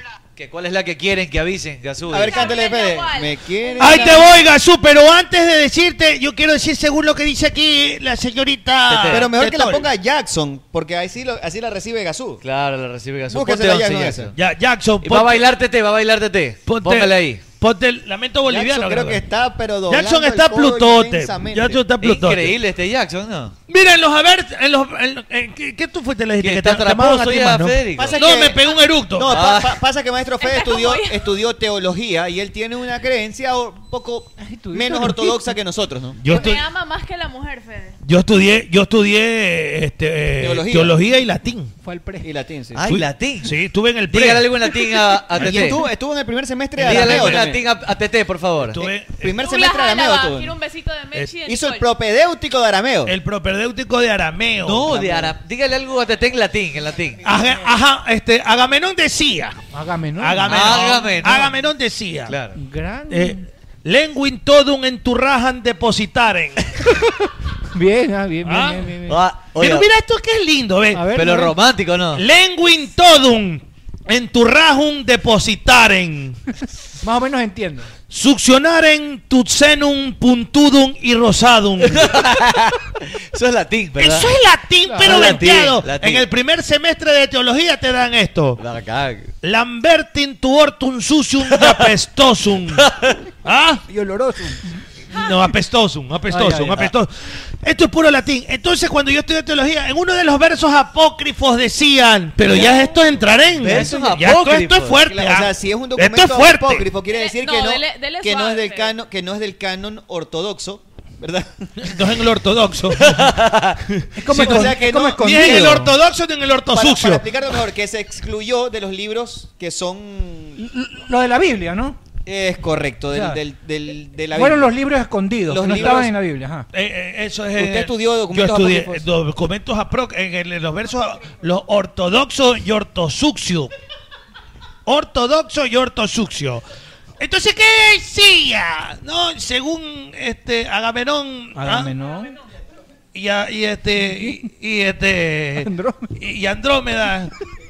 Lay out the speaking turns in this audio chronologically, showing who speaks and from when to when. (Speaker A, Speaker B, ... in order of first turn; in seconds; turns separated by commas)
Speaker A: 0.4-2.5, Speaker B: 2.1-4.3, Speaker C: 2.1-4.4, Speaker D: 3.8-9.8, Speaker A: 8.9-9.4, Speaker B: 9.1-12.4, Speaker A: 12.4-14.3, Speaker B: 13.3-14.3, Speaker D: 14.3-15.5, Speaker A: 15.0-17.5, Speaker D: 16.6-19.2, Speaker B: 18.5-21.8, Speaker D: 19.9-22.5, Speaker A: 22.0-23.6, Speaker D: 23.7-29.4, Speaker A: 26.4-28.3, Speaker B: 27.9-36.2, Speaker A: 29.3-29.8, Speaker C: 30.4-31.3, Speaker E: 34.4-35.5, Speaker D: 36.2-36.6, Speaker C: 36.2-38.0, Speaker D: 38.0-41.7, Speaker B: 40.4-41.0, Speaker E: 41.8-42.3, Speaker B: 42.2-42.8, Speaker A: 42.8-43.5, Speaker D: 42.9-44.7, Speaker A: 44.1-45.9, Speaker B: 45.4-47.7, Speaker D: 45.4-45.7, Speaker A: 46.8-48.8, Speaker D: 46.9-47.5, Speaker D: 48.7-49.3, Speaker B: 49.2-50.6, Speaker C: 49.3-51.9, Speaker B: 51.5-53.1, Speaker D: 53.1-55.1, Speaker A: 54.6-57.2, Speaker D: 57.2-59.6, Speaker E: 59.7-61.5, Speaker D: 60.2-62.4, Speaker A: 60.5-61.5, Speaker A: 62.3-62.6, Speaker E: 62.5-63.5, Speaker D: 63.1-66.7, Speaker E: 67.7-69.2, Speaker D: 68.5-68.8, Speaker A: 69.1-69.9, Speaker D: 69.5-71.1, Speaker E: 70.9-71.6, Speaker A: 71.1-72.2, Speaker D: 72.1-76.4, Speaker E: 77.0-77.9, Speaker D: 78.1-82.2, Speaker A: 81.8-82.8, Speaker A: 83.3-84.3, Speaker D: 84.0-88.6, Speaker E: 84.8-85.6, Speaker A: 85.0-86.2, Speaker A: 88.6-89.3, Speaker D: 89.4-92.8, Speaker A: 91.5-91.9, Speaker A: 92.7-93.2, Speaker D: 93.4-93.8, Speaker E: 93.9-95.4, Speaker D: 95.1-97.1, Speaker E: 96.3-96.9, Speaker D: 97.6-106.9, Speaker B: 102.5-102.7, Speaker E: 102.5-102.8, Speaker A: 103.5-105.0, Speaker E: 103.7-104.2, Speaker B: 104.9-111.9, Speaker C: 107.0-108.9, Speaker D: 111.8-113.3, Speaker A: 113.0-113.8, Speaker E: 114.2-116.0, Speaker B: 114.3-115.8, Speaker D: 114.4-114.7, Speaker D: 115.2-117.2, Speaker B: 116.7-120.6, Speaker E: 120.6-122.0, Speaker B: 122.2-124.8, Speaker E: 123.1-123.4, Speaker E: 124.3-126.7, Speaker B: 125.5-126.1, Speaker D: 126.7-133.7, Speaker B: 127.6-129.0, Speaker E: 128.5-129.0, Speaker D: 134.9-136.6, Speaker D: 137.2-141.9, Speaker E: 141.6-142.4, Speaker D: 143.1-147.3, Speaker E: 144.0-144.5, Speaker E: 145.6-146.1